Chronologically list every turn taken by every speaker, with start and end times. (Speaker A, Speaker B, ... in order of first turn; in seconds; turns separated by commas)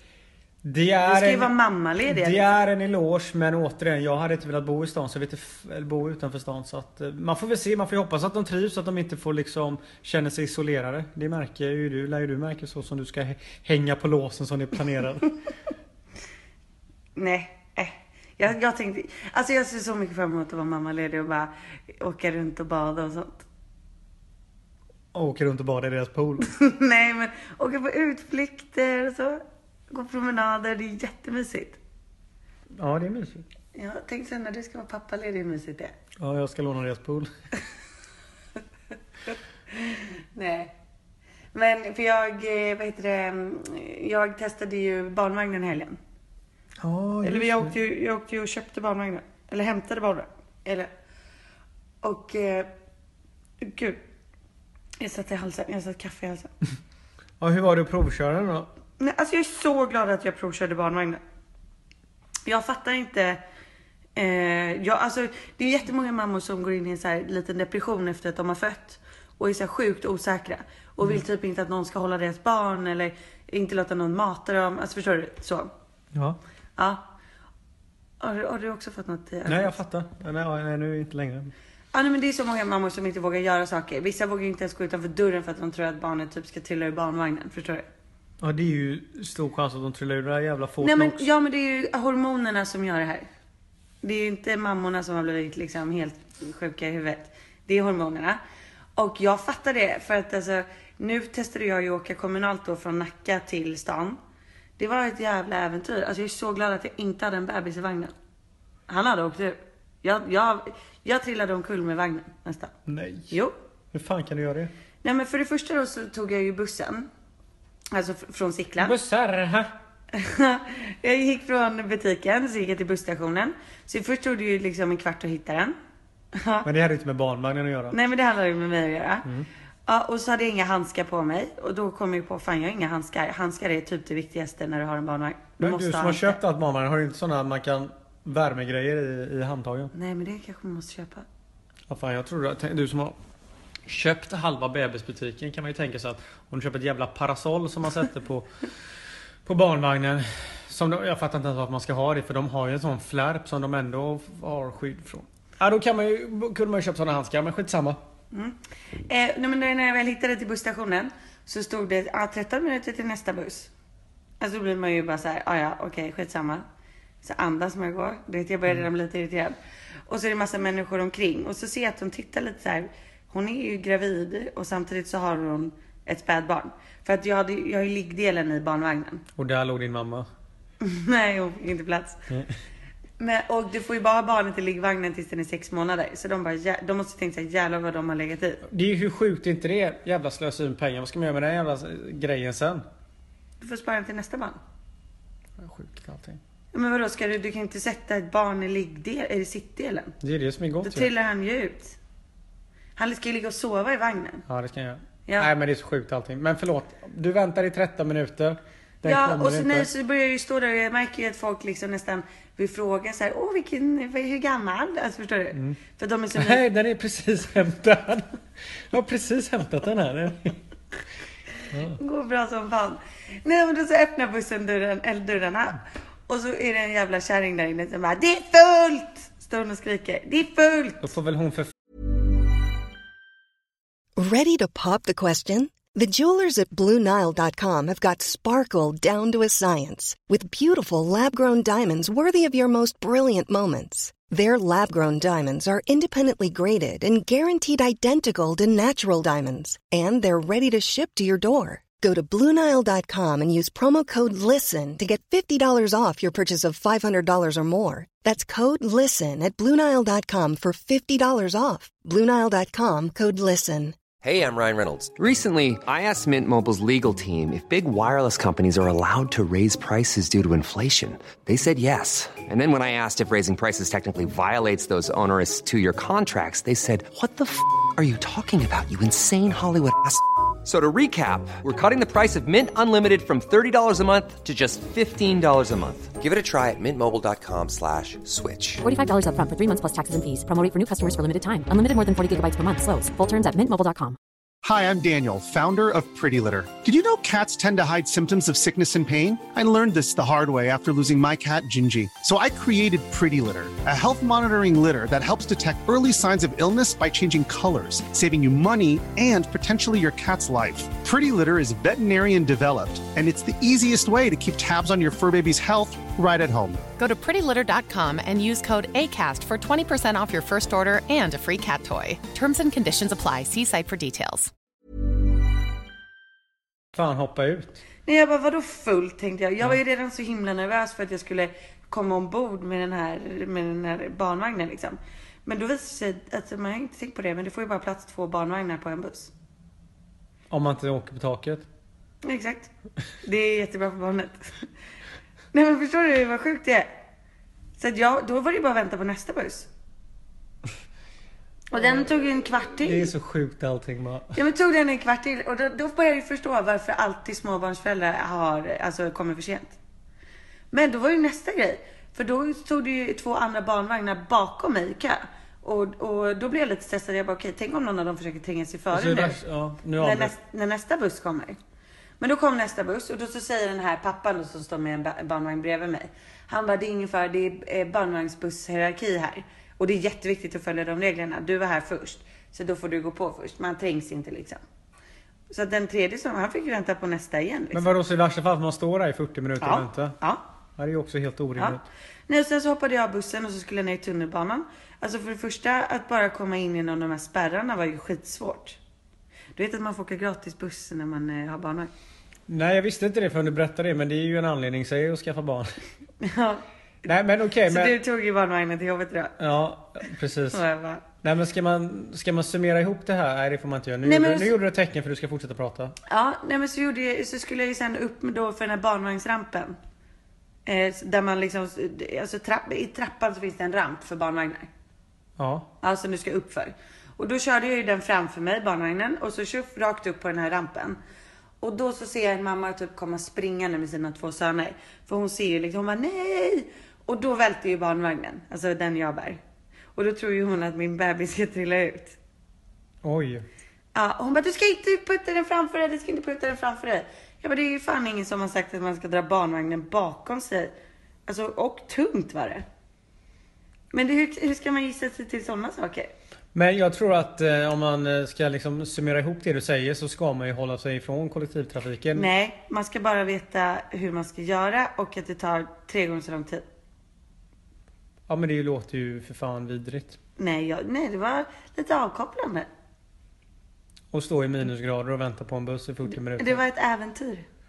Speaker A: 0.6-1.5, Speaker B: 1.1-2.5, Speaker A: 2.0-15.3, Speaker B: 17.2-23.4, Speaker A: 25.1-26.5, Speaker B: 26.4-31.8, Speaker A: 32.8-33.5, Speaker B: 33.8-36.0, Speaker A: 36.2-37.3, Speaker B: 39.7-40.7, Speaker B: 41.5-46.0, Speaker A: 46.8-47.8, Speaker B: 47.2-50.9, Speaker B: 52.0-52.7, Speaker B: 53.6-54.0, Speaker B: 55.0-56.5, Speaker A: 57.4-58.7, Speaker B: 59.0-61.2, Speaker B: 62.5-63.4, Speaker B: 64.2-75.7, Speaker A: 76.1-76.4, Speaker B: 76.8-77.0, Speaker B: 78.2-79.8, Speaker A: 79.5-81.5, Speaker B: 81.9-87.9, Speaker A: 88.4-91.2, Speaker B: 90.8-93.3, Speaker B: 94.0-98.4, Speaker B: 99.0-104.2, Speaker B: 104.8-108.1, Speaker B: 108.9-112.7, Speaker A: 112.9-113.3, Speaker A: 113.9-114.7, Speaker B: 115.0-117.1, Speaker B: 117.9-119.0, Speaker A: 118.8-119.7, Speaker B: 120.1-125.8, Speaker B: 126.3-126.7, Speaker A: 126.7-128.0, Speaker B: 127.9-129.3, Speaker B: 129.9-136.4, Speaker A: 135.6-139.9, Speaker B: 139.9-141.3, Speaker A: 141.9-143.2, Speaker A: 143.9-148.5, Speaker A: 149.5-158.0, Speaker B: 159.1-163.7, Speaker B: 164.4-166.6, Speaker B: 167.2-169.6, Speaker B: 170.1-179.2, Speaker A: 179.4-180.3, Speaker B: 180.8-182.2, Speaker B: 183.2-188.6, Speaker A: 188.7-192.8, Speaker B: 193.6-194.6, Speaker A: 195.6-196.4, Speaker B: 196.7-200.2, Speaker A: 200.2-201.1, Speaker B: 200.8-202.0, Speaker B: 203.0-204.4, Speaker A: 204.5-209.9, Speaker B: 209.0-216.6, Speaker A: 216.3-218.4, Speaker A: 218.9-220.6, Speaker A: 221.7-222.0, Speaker B: 222.0-231.1, Speaker A: 231.0-231.7, Speaker C: 234.2-264.0, Speaker D: 264.2-288.8, Speaker E: 288.8-294.2, Speaker F: 294.6-316.8, Speaker G: 317.0-324.5, Speaker A: 326.9-327.8, Speaker B: 328.1-339.3, Speaker A: 340.5-341.7, Speaker B: 342.2-342.7, Speaker B: 343.2-344.7, Speaker B: 345.5-346.9, Speaker B: 347.8-349.7, Speaker B: 351.7-353.1, Speaker A: 351.8-352.0, Speaker A: 352.6-354.4, Speaker B: 354.4-359.8, Speaker B: 360.7-369.4, Speaker A: 368.9-370.3, Speaker B: 370.0-371.6, Speaker B: 372.2-384.6, Speaker B: 385.5-387.9, Speaker A: 387.7-390.2, Speaker B: 389.6-390.4, Speaker A: 390.8-391.8, Speaker B: 391.6-398.8, Speaker B: 399.6-401.9, Speaker A: 402.5-405.8, Speaker B: 406.2-406.6, Speaker A: 407.1-408.0, Speaker B: 407.7-409.4, Speaker A: 409.4-410.6, Speaker B: 410.5-411.0, Speaker A: 411.2-415.9, Speaker B: 414.0-414.5, Speaker B: 416.1-419.8, Speaker B: 420.7-424.7, Speaker A: 425.4-425.7, Speaker B: 425.8-431.0, Speaker B: 431.6-439.4, Speaker B: 440.0-442.2, Speaker A: 443.0-443.5, Speaker B: 443.9-450.7, Speaker B: 451.3-452.6, Speaker B: 453.9-456.1, Speaker A: 456.5-462.3, Speaker B: 462.1-466.6, Speaker A: 468.3-470.2, Speaker B: 470.4-472.7, Speaker A: 474.1-476.6, Speaker B: 476.1-477.4